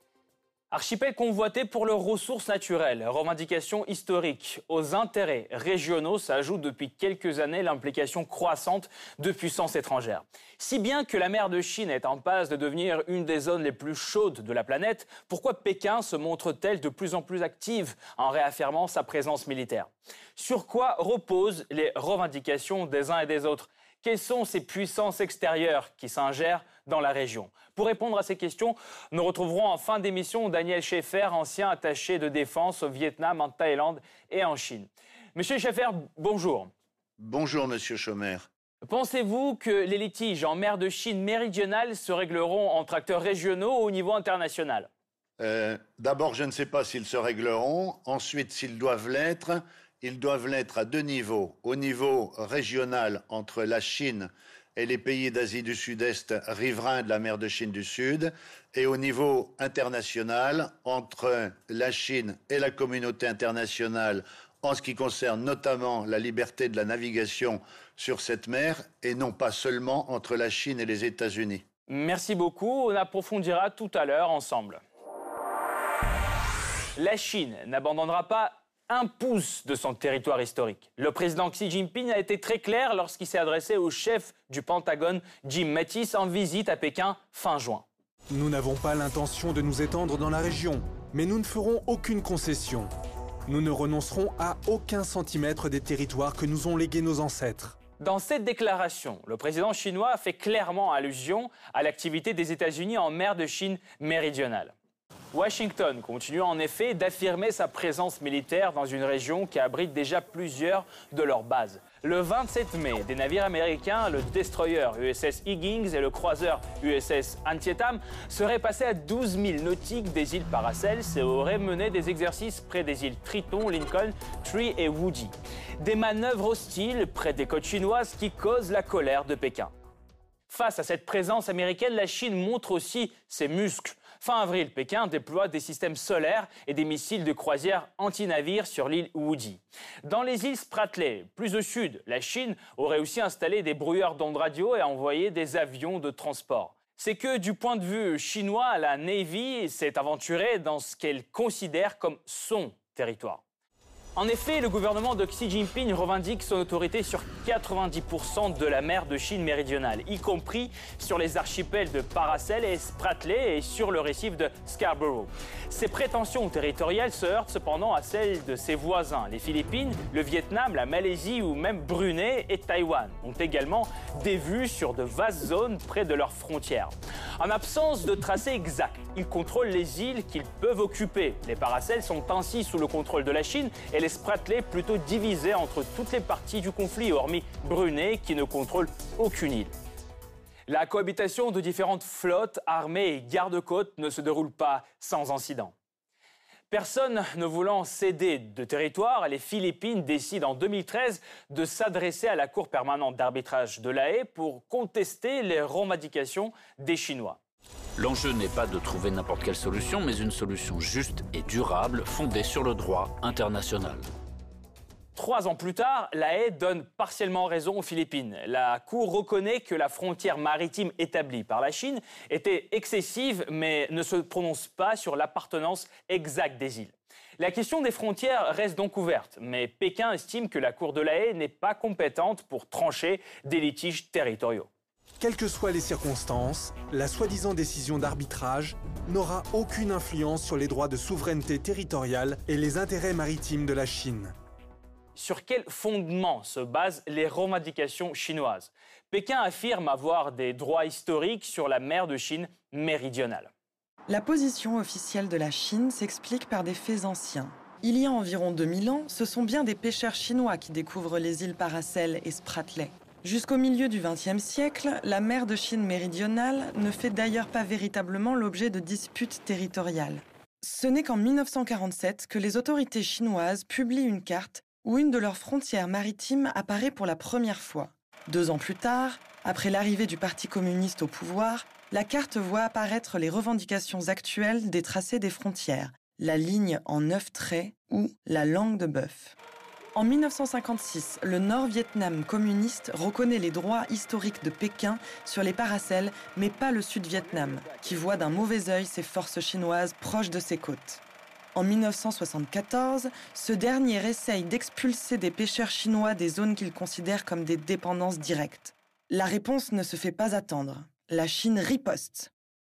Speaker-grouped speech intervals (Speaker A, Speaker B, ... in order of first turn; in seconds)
Speaker A: 0.7-36.7, 38.8-44.9, 71.9-74.8, 77.0-87.8, 98.0-104.7, 105.3-129.7, 130.5-153.4, 154.2-189.7, 190.7-195.7, 196.7-207.4, 215.1-234.7, 245.1-253.5
Speaker B: 37.2-38.5, 45.4-71.6
Speaker C: 88.3-92.9, 93.5-97.8, 235.2-244.3
Speaker D: 208.0-214.0
Speaker E: 254.1-289.4, 289.9-301.0, 301.5-312.3